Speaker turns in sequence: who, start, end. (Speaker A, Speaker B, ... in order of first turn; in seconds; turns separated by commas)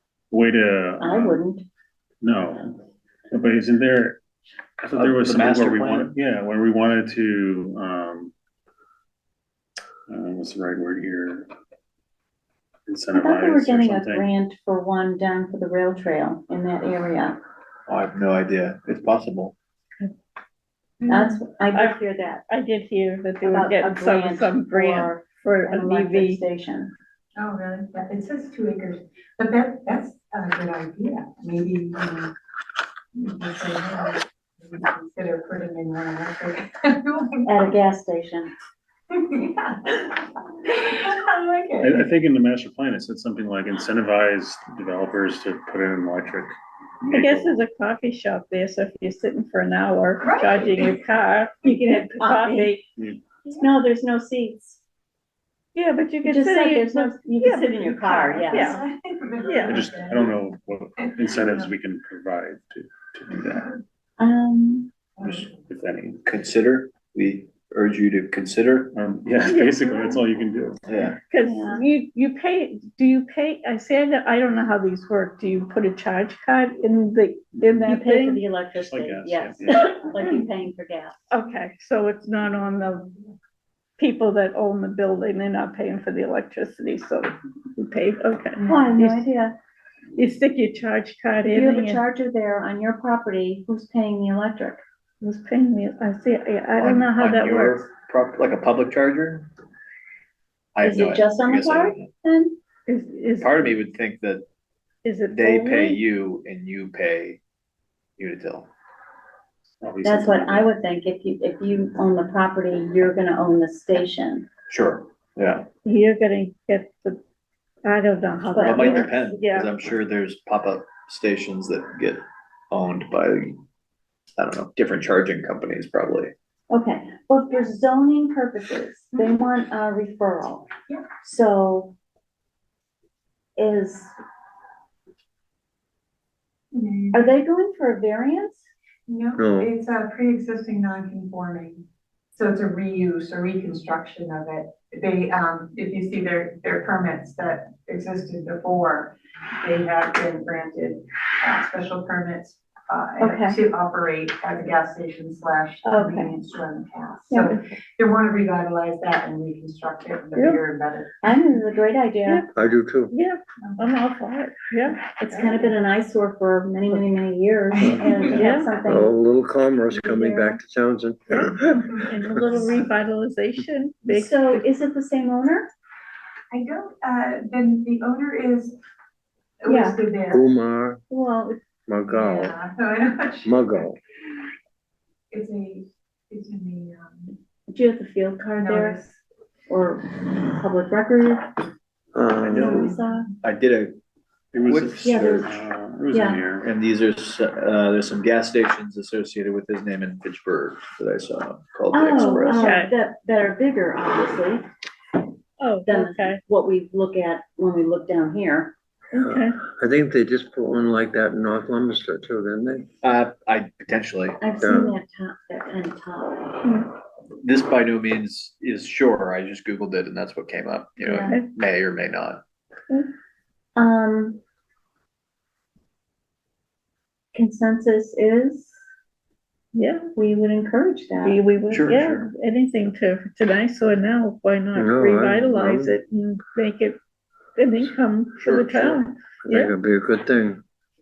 Speaker A: 0.3-1.4, Speaker B: 1.0-1.6, Speaker A: 2.2-2.8, Speaker A: 3.3-4.2, Speaker A: 4.8-8.3, Speaker C: 4.9-6.1, Speaker A: 10.1-11.5, Speaker A: 12.9-14.3, Speaker B: 13.1-17.4, Speaker C: 17.9-19.5, Speaker D: 21.0-21.4, Speaker B: 21.1-22.4, Speaker E: 21.7-26.4, Speaker B: 23.4-26.9, Speaker D: 27.4-32.3, Speaker D: 33.1-37.7, Speaker B: 37.4-38.5, Speaker D: 39.1-42.1, Speaker A: 41.8-46.5, Speaker A: 47.1-47.6, Speaker E: 47.1-52.8, Speaker D: 50.2-50.9, Speaker B: 51.6-52.9, Speaker A: 53.0-53.2, Speaker B: 53.4-54.8, Speaker E: 55.7-58.8, Speaker B: 56.2-58.8, Speaker D: 58.1-60.4, Speaker E: 59.4-59.8, Speaker A: 59.6-63.7, Speaker D: 61.1-61.7, Speaker B: 64.2-64.9, Speaker A: 65.7-66.2, Speaker C: 66.2-68.9, Speaker A: 68.9-70.8, Speaker E: 69.4-70.2, Speaker C: 70.9-71.2, Speaker E: 71.3-78.4, Speaker B: 71.4-71.8, Speaker A: 77.5-77.8, Speaker B: 77.8-81.2, Speaker A: 78.7-80.0, Speaker E: 81.3-83.1, Speaker E: 84.0-89.2, Speaker B: 88.6-89.6, Speaker E: 90.1-92.0, Speaker B: 91.4-94.8, Speaker E: 95.2-97.8, Speaker C: 96.8-99.5, Speaker C: 100.8-102.1, Speaker B: 100.8-102.5, Speaker E: 102.9-103.6, Speaker C: 103.4-104.4, Speaker E: 105.0-106.0, Speaker C: 105.3-107.4, Speaker C: 108.2-108.7, Speaker A: 109.8-110.7, Speaker B: 110.0-114.5, Speaker C: 114.7-115.7, Speaker E: 115.8-117.2, Speaker E: 117.8-119.7, Speaker B: 118.5-119.1, Speaker C: 118.6-123.6, Speaker C: 124.4-126.3, Speaker B: 126.7-130.7, Speaker B: 131.2-131.9, Speaker B: 133.6-134.1, Speaker D: 136.7-137.3, Speaker B: 137.1-138.6, Speaker D: 139.1-161.4, Speaker F: 139.4-139.7, Speaker B: 153.2-153.6, Speaker B: 155.8-156.3, Speaker B: 161.2-162.5, Speaker F: 162.5-163.1, Speaker E: 163.1-165.1, Speaker B: 165.2-169.2, Speaker D: 165.3-165.7, Speaker D: 167.7-168.4, Speaker F: 167.8-172.6, Speaker E: 168.2-168.8, Speaker B: 169.9-170.6, Speaker E: 171.3-174.7, Speaker B: 174.1-175.7, Speaker D: 176.5-178.8, Speaker D: 179.6-180.4, Speaker B: 179.7-180.0, Speaker F: 180.3-181.0, Speaker B: 181.1-181.6, Speaker F: 181.9-182.6, Speaker D: 182.0-183.8, Speaker F: 183.4-184.0, Speaker D: 185.3-187.3, Speaker B: 187.7-189.0, Speaker D: 188.6-189.1, Speaker B: 189.7-191.6, Speaker F: 192.1-193.0, Speaker A: 192.4-192.8, Speaker B: 192.5-193.3, Speaker C: 193.4-194.0, Speaker A: 194.5-196.7, Speaker C: 194.6-195.5, Speaker B: 195.0-195.5, Speaker B: 196.1-196.4, Speaker C: 196.6-202.7, Speaker B: 201.9-204.7, Speaker E: 202.2-202.9, Speaker E: 205.6-206.4, Speaker B: 205.8-208.7, Speaker E: 209.1-209.6, Speaker F: 209.2-212.9, Speaker C: 213.0-214.4, Speaker B: 214.4-216.6, Speaker F: 214.6-214.9, Speaker E: 216.6-216.9, Speaker C: 217.4-222.4, Speaker B: 221.0-221.4, Speaker B: 223.8-224.4, Speaker B: 227.3-228.8, Speaker E: 229.7-230.0, Speaker B: 230.2-231.4, Speaker E: 231.2-237.0, Speaker C: 231.7-232.3, Speaker F: 234.7-236.0, Speaker E: 237.6-239.7, Speaker C: 238.4-239.0, Speaker F: 239.4-240.6